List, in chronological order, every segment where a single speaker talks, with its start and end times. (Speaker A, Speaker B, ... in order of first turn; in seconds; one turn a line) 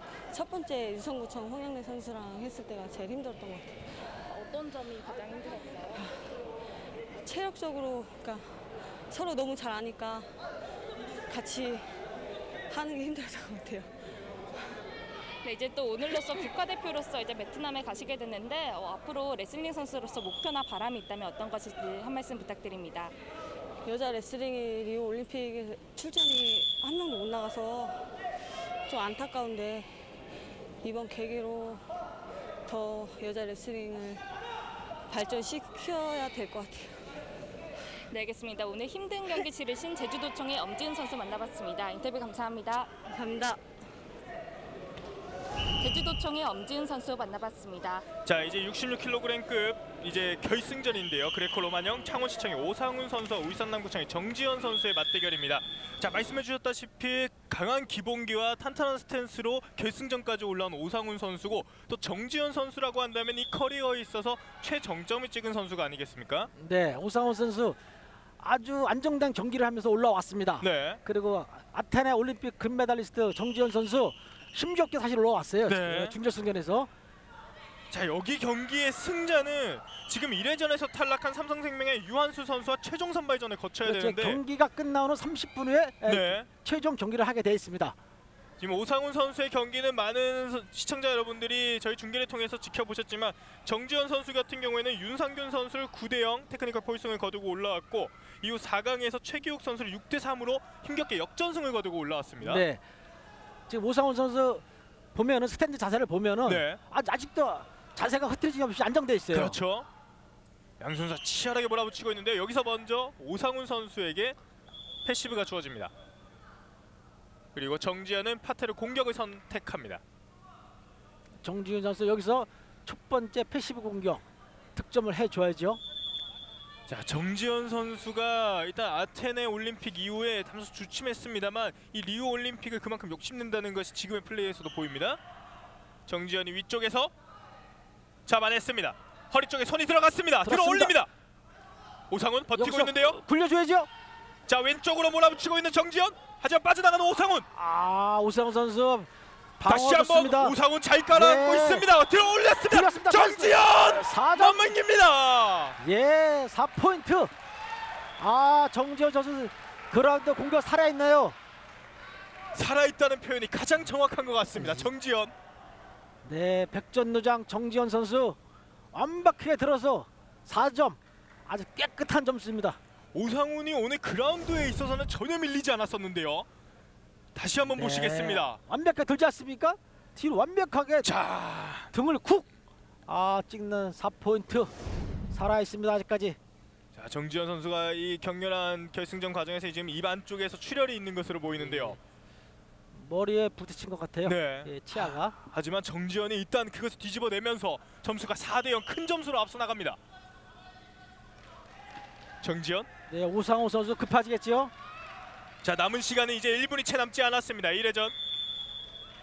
Speaker A: 0.3-3.8
Speaker B: 4.3-6.1
Speaker A: 7.2-10.3
Speaker A: 11.3-12.0
Speaker A: 12.7-14.0
Speaker B: 15.4-23.1
Speaker A: 23.8-28.1
Speaker A: 28.9-30.0
Speaker A: 30.8-31.9
Speaker A: 32.7-34.2
Speaker A: 35.1-37.0
Speaker B: 38.0-42.9
Speaker A: 43.1-43.6
Speaker B: 45.8-48.1
Speaker C: 48.2-66.5
Speaker D: 66.6-67.8
Speaker D: 68.4-76.9
Speaker C: 70.6-71.0
Speaker C: 75.7-76.2
Speaker C: 77.9-84.4
Speaker D: 83.8-88.0
Speaker C: 86.0-86.5
Speaker C: 88.6-102.7
Speaker D: 102.4-102.8
Speaker D: 103.7-104.6
Speaker D: 105.2-109.6
Speaker C: 106.5-106.8
Speaker C: 109.3-109.9
Speaker C: 110.8-114.4
Speaker C: 115.0-115.9
Speaker C: 117.5-120.0
Speaker D: 121.4-124.2
Speaker D: 124.8-125.8
Speaker C: 126.9-135.2
Speaker C: 136.1-137.1
Speaker C: 138.3-141.1
Speaker D: 140.4-140.9
Speaker C: 142.1-143.2
Speaker D: 142.5-143.9
Speaker C: 144.5-147.5
Speaker D: 147.6-149.1
Speaker D: 149.6-150.6
Speaker C: 149.7-155.8
Speaker D: 151.1-151.9
Speaker D: 152.7-154.8
Speaker D: 155.8-157.3
Speaker D: 158.2-161.3
Speaker C: 162.5-165.3
Speaker D: 164.6-164.9
Speaker D: 166.2-168.4
Speaker D: 168.9-172.8
Speaker C: 173.1-176.5
Speaker C: 177.3-178.6
Speaker D: 177.6-181.1
Speaker C: 181.0-181.9
Speaker D: 181.9-182.5
Speaker D: 183.1-184.7
Speaker D: 185.3-186.4
Speaker C: 186.9-192.0
Speaker D: 191.6-192.0
Speaker D: 192.9-195.3
Speaker C: 194.2-200.0
Speaker C: 202.4-202.9
Speaker D: 203.1-204.7
Speaker C: 205.6-208.1